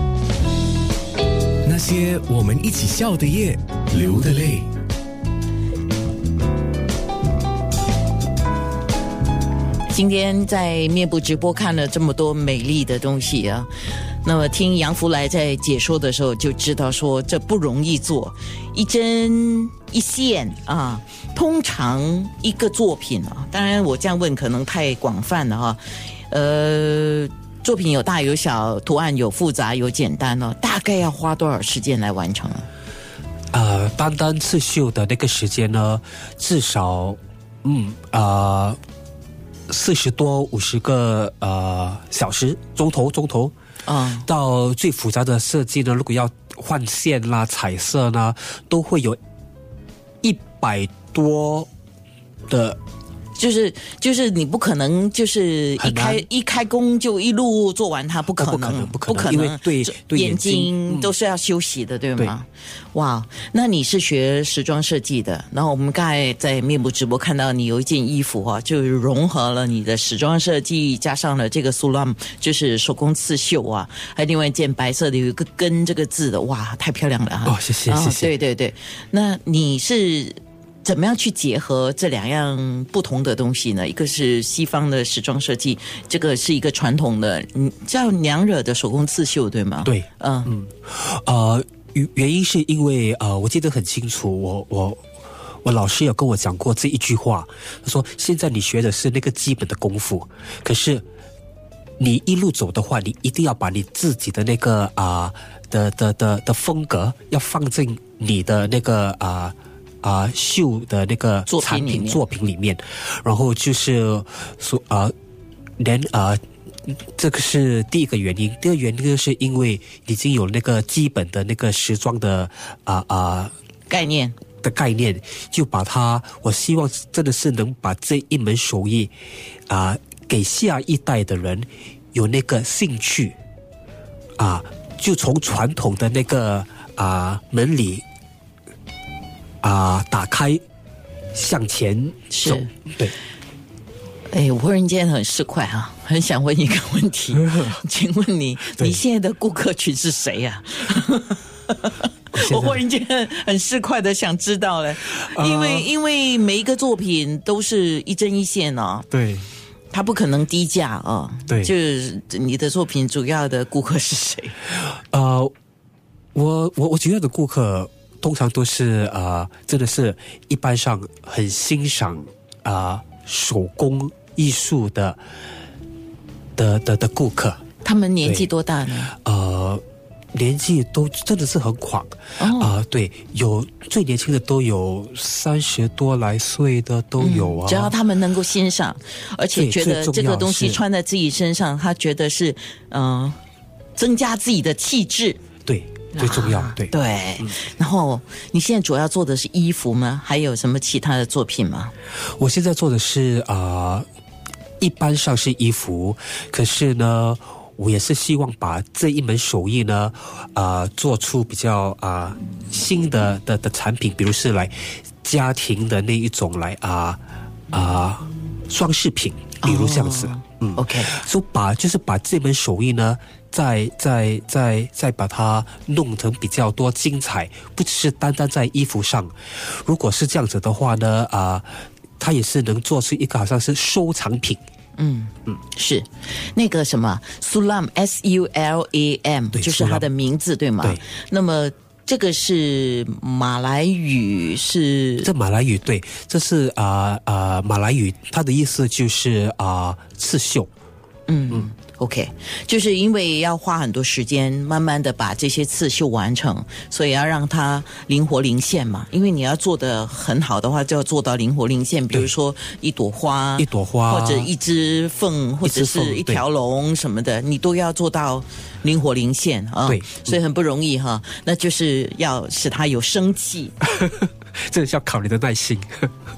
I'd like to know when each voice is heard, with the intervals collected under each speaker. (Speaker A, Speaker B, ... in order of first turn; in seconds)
Speaker A: 1.6-4.7
Speaker B: 9.9-13.7, 14.2-32.6, 43.8-44.3, 53.4-90.5, 111.5-112.2, 123.9-124.3, 142.3-142.7, 144.3-159.1, 159.9-164.5, 177.8-179.1, 182.4-182.8, 187.2-193.4, 193.9-195.4, 196.1-201.9, 219.6-221.1, 234.9-245.3, 251.3-273.7
Speaker C: 33.5-38.8, 39.7-43.5, 44.2-49.2, 50.2-51.7, 52.5-52.8, 55.8-56.2, 58.3-61.1, 77.4-78.3, 89.8-95.0, 95.6-101.0, 102.0-115.1, 115.8-123.5, 124.6-129.1, 129.7-133.3, 134.4-138.0, 139.6-140.6, 141.3-143.1, 147.3-147.8, 152.3-152.8, 155.2-155.9, 159.1-159.4, 165.1-165.5, 166.3-175.2, 176.6-177.6, 179.1-179.8, 180.3-187.9, 189.5-190.8, 195.7-197.5, 202.4-204.0, 204.8-217.2, 217.7-234.6, 239.5-240.1, 245.2-250.7, 263.6-264.5, 265.6-266.4, 269.8-270.4, 273.8-276.1